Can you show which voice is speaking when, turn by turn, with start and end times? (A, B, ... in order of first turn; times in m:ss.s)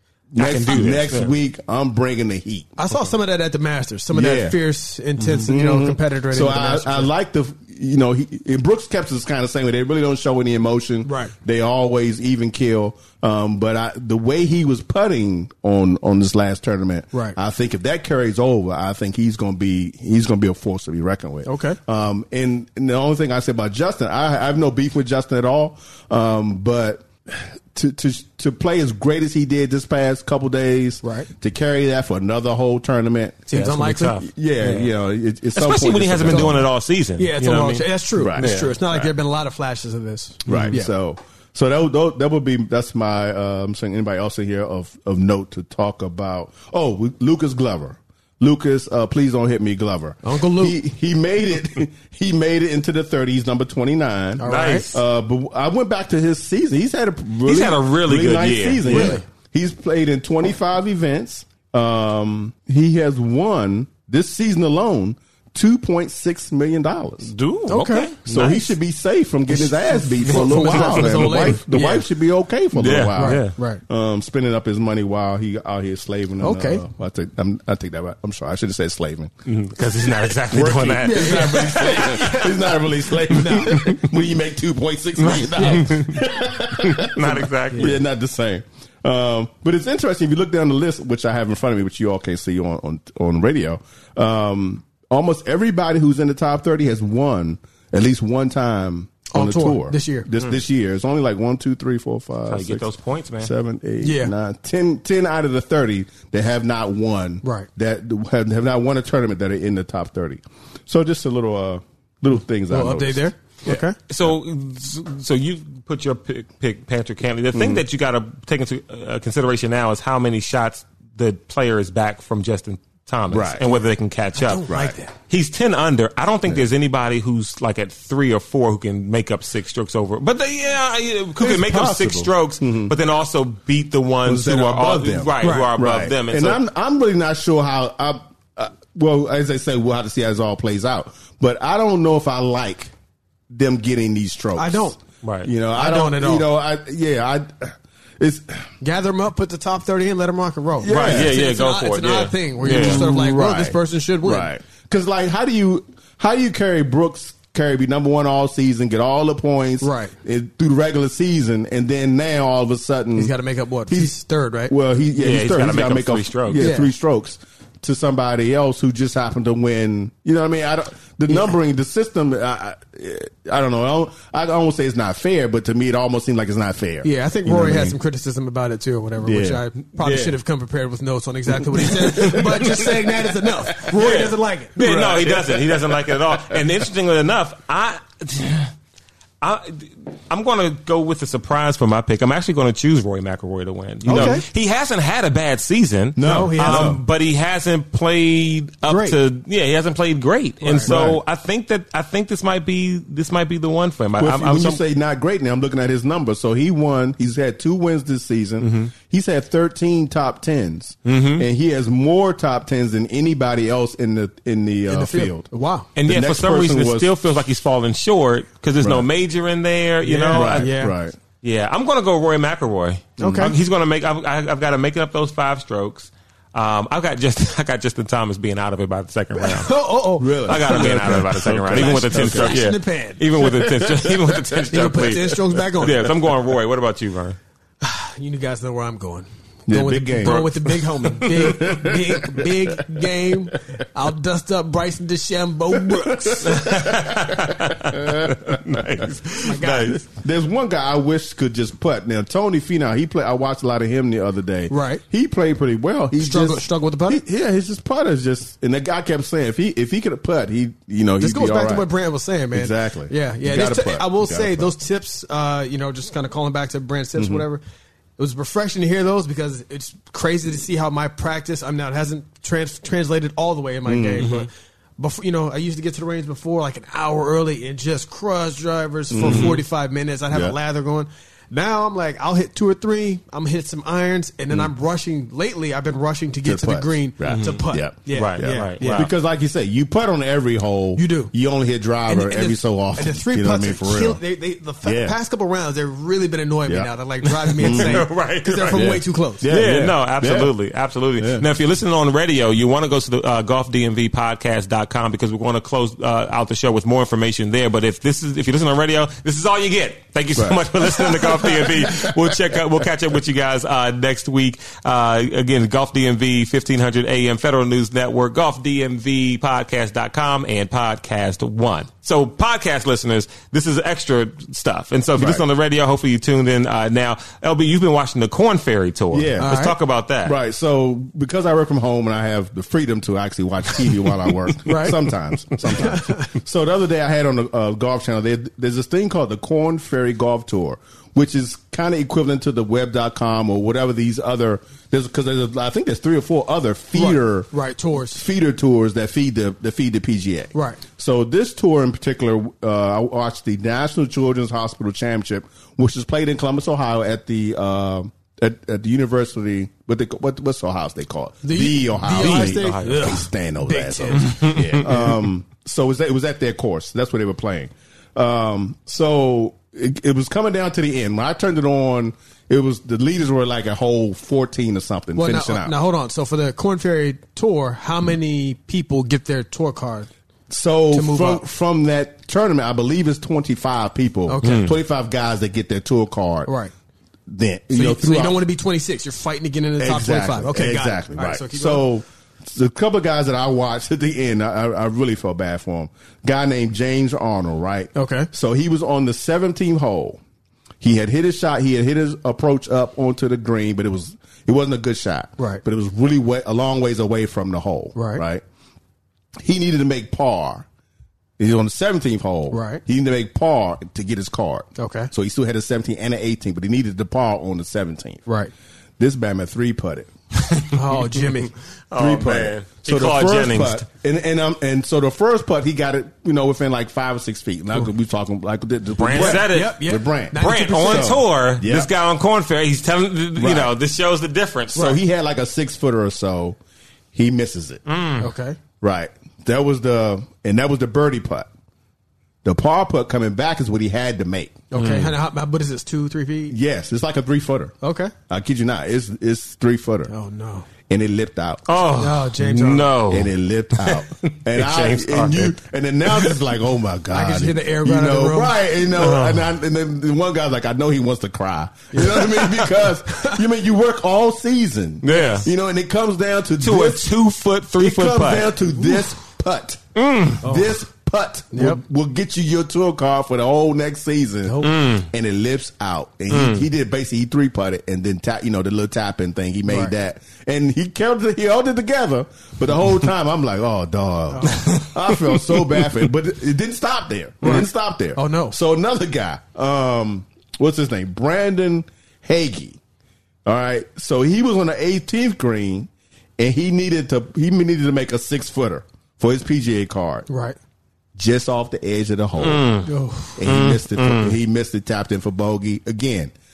0:00.3-0:02.7 A
0:00.4-0:01.3 B
0:02.8-0:07.1 C
0:04.1-0:04.6 A
0:05.4-0:33.4 A
0:11.0-0:11.3 C
0:21.4-0:21.8 C
0:31.0-0:31.3 C
0:33.5-0:34.2 C
0:33.5-0:34.9 B
0:34.2-0:36.7 A
0:35.5-0:39.1 B
0:36.3-0:36.6 C
0:37.2-0:40.9 C
0:38.2-0:38.6 A
0:40.4-1:07.3 A
0:40.5-0:40.7 B
0:50.2-0:50.8 C
0:54.4-0:54.9 C
0:54.4-0:55.0 B
0:57.4-0:59.2 B
0:58.8-0:59.2 C
1:07.2-1:08.6 B
1:07.7-1:08.1 C
1:08.2-1:19.3 A
1:09.5-1:12.0 C
1:10.5-1:11.8 B
1:12.8-1:13.5 B
1:13.2-1:13.8 C
1:16.4-1:16.8 C
1:19.4-1:22.5 B
1:20.5-1:42.9 A
1:21.0-1:22.5 C
1:23.3-1:23.9 C
1:23.7-1:24.0 B
1:25.2-1:26.2 B
1:26.8-1:28.0 B
1:39.3-1:40.3 C
1:42.5-1:43.5 B
1:43.4-1:54.3 A
1:44.0-1:44.3 C
1:47.4-1:47.7 C
1:52.7-1:54.0 C
1:54.1-2:16.6 B
1:57.5-1:57.8 A
2:03.3-2:03.7 A
2:04.4-2:05.1 C
2:04.7-2:05.0 A
2:11.4-2:12.9 A
2:14.2-2:22.9 A
2:15.4-2:15.7 C
2:23.5-2:24.9 A
2:24.5-2:25.0 C
2:25.2-2:25.5 B
2:25.4-2:28.7 A
2:25.7-2:26.5 C
2:28.8-2:34.5 C
2:30.8-2:31.4 A
2:30.9-2:33.1 B
2:32.6-2:43.3 A
2:39.8-2:40.1 C
2:43.2-2:44.7 C
2:43.9-2:44.1 A
2:44.7-2:58.0 A
2:45.2-2:46.7 B
2:46.6-2:46.9 C
2:57.0-3:04.8 C
2:59.2-3:00.3 A
3:01.8-3:04.2 A
3:03.9-3:08.7 B
3:04.8-3:06.6 A
3:09.4-3:24.8 B
3:14.0-3:14.4 A
3:14.1-3:14.4 C
3:16.2-3:17.0 A
3:16.2-3:16.9 C
3:18.9-3:19.2 C
3:20.6-3:21.0 C
3:20.8-3:21.2 A
3:24.2-3:37.1 A
3:28.6-3:28.9 B
3:31.0-3:31.4 B
3:34.9-3:35.9 C
3:36.0-3:40.8 B
3:38.8-3:39.0 A
3:40.0-3:41.0 C
3:40.3-3:41.1 A
3:41.4-3:49.8 B
3:43.2-3:43.6 A
3:43.2-3:43.5 C
3:49.3-3:53.4 C
3:50.2-3:52.6 A
3:50.4-3:57.4 B
3:53.4-3:54.2 A
3:54.7-3:56.1 C
3:57.8-4:06.6 C
3:59.7-4:02.8 A
4:00.2-4:00.5 B
4:05.9-4:09.0 A
4:06.4-4:10.0 B
4:09.4-4:10.0 C
4:09.9-4:21.9 A
4:14.7-4:15.0 C
4:16.2-4:17.2 C
4:21.2-4:27.6 C
4:22.5-4:24.7 A
4:27.2-4:27.4 A
4:28.2-4:49.1 C
4:33.8-4:34.3 A
4:34.2-4:34.5 B
4:39.1-4:39.6 A
4:39.2-4:39.6 B
4:40.3-4:40.6 A
4:46.4-4:54.2 A
4:47.2-4:47.6 B
4:48.1-4:49.1 B
4:51.0-4:51.3 C
4:52.1-4:59.4 C
4:54.8-4:55.2 A
4:57.4-5:30.4 B
4:57.6-4:58.0 A
4:58.7-5:00.5 A
5:01.2-5:01.5 A
5:10.4-5:12.6 A
5:25.2-5:25.4 A
5:29.1-5:29.6 A
5:29.4-5:29.8 C
5:30.2-5:47.5 A
5:34.6-5:35.0 C
5:35.8-5:36.3 C
5:46.9-5:48.2 C
5:48.0-6:15.8 A
5:50.5-5:50.8 C
6:01.4-6:04.5 C
6:02.2-6:03.2 B
6:04.2-6:05.1 B
6:15.2-6:20.1 C
6:20.5-6:26.5 A
6:20.9-6:21.4 C
6:24.3-6:24.7 C
6:24.4-6:24.7 B
6:26.4-6:26.7 C
6:27.3-6:28.4 A
6:27.7-6:31.9 C
6:29.8-6:40.2 A
6:37.9-6:38.3 C
6:40.8-6:48.4 A
6:47.9-6:48.2 C
6:49.4-6:50.6 A
6:51.4-6:58.2 A
6:52.5-6:52.8 C
6:54.8-6:55.1 C
6:58.2-6:58.5 C
6:59.0-7:00.1 A
7:00.7-7:01.5 C
7:01.9-7:03.8 B
7:01.9-7:11.9 A
7:09.0-7:11.2 C
7:09.0-7:14.9 B
7:13.4-7:13.7 A
7:14.7-7:16.6 A
7:17.1-7:17.8 A
7:17.8-7:18.3 B
7:18.2-7:18.6 C
7:18.8-7:21.5 A
7:22.4-7:24.6 A
7:24.7-7:26.6 C
7:24.7-7:25.1 B
7:26.5-7:27.8 A
7:27.8-7:28.1 C
7:28.3-7:30.1 A
7:30.1-7:30.7 C
7:30.9-7:31.8 A
7:31.7-7:35.5 B
7:32.0-7:33.0 C
7:33.1-7:47.1 A
7:36.1-7:36.4 B
7:37.1-7:38.6 C
7:38.9-7:39.5 B
7:41.9-7:43.4 C
7:45.0-7:45.5 B
7:46.6-7:48.6 B
7:47.8-7:49.8 A
7:50.0-7:50.4 B
7:50.4-8:12.8 A
7:50.4-7:50.8 C
7:51.5-7:51.8 C
7:54.4-7:54.7 C
7:54.6-7:55.1 B
7:56.3-7:56.6 B
7:59.7-7:59.9 C
8:04.3-8:04.8 C
8:07.4-8:08.6 C
8:13.4-8:20.3 A
8:20.3-8:20.6 C
8:21.2-8:22.8 A
8:22.4-8:24.4 B
8:22.8-8:23.4 C
8:23.4-8:26.3 A